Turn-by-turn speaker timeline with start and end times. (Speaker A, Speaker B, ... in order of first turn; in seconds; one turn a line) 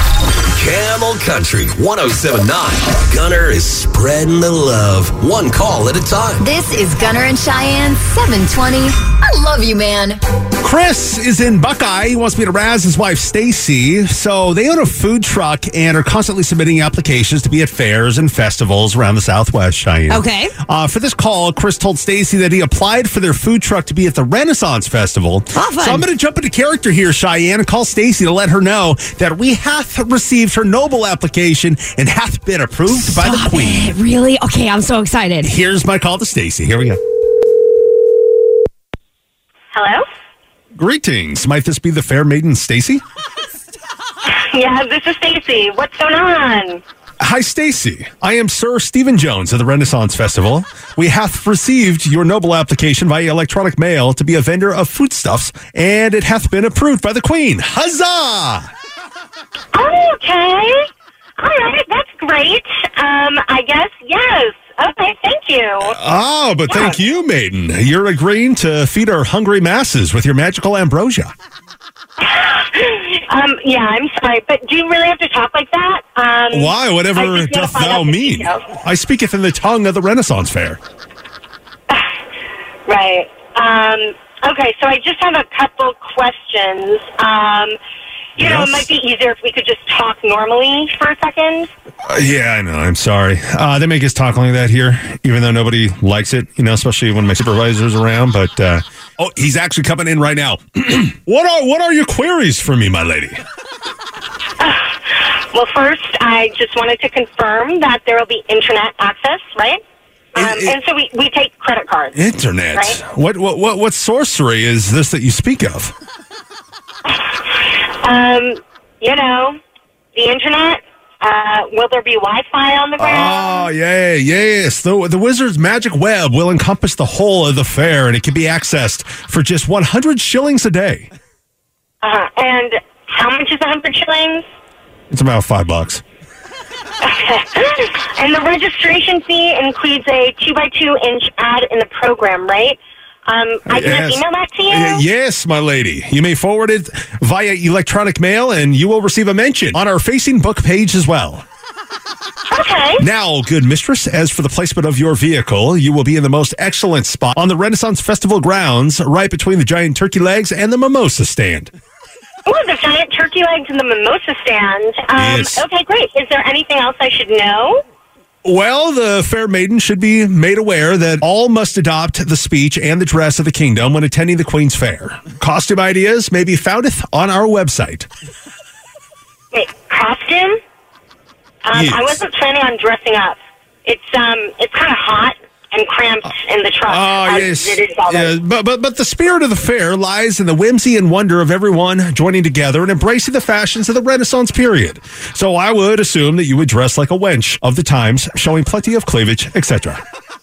Speaker A: 0.5-6.4
Speaker B: 6.4-10.2
Speaker C: 10.6-33.9
Speaker D: 20.1-20.5
Speaker D: 25.5-26.1
Speaker D: 32.9-35.5
Speaker C: 35.4-37.0
Speaker E: 39.7-40.0
Speaker C: 40.8-43.0
Speaker E: 44.3-46.8
Speaker C: 47.2-58.7
Speaker E: 59.7-60.8
Speaker E: 61.4-65.9
Speaker C: 65.8-71.3
Speaker E: 66.7-67.0
Speaker E: 72.2-78.7
Speaker C: 76.5-80.8
Speaker E: 82.8-87.8
Speaker E: 88.3-91.7
Speaker C: 88.4-88.9
Speaker C: 92.1-103.4
Speaker E: 104.6-109.8
Speaker E: 110.3-112.2
Speaker C: 110.4-110.8
Speaker C: 112.1-115.9
Speaker E: 112.7-113.0
Speaker E: 117.1-119.5
Speaker E: 120.1-123.7
Speaker C: 123.0-131.1
Speaker E: 132.0-134.4
Speaker C: 135.1-136.0
Speaker E: 137.0-145.0
Speaker C: 143.7-151.4
Speaker E: 152.5-153.0
Speaker C: 153.0-161.7
Speaker E: 162.4-167.8
Speaker C: 165.2-165.6
Speaker C: 168.4-178.1
Speaker E: 179.5-180.6
Speaker E: 181.6-188.3
Speaker C: 181.7-182.2
Speaker C: 186.9-200.0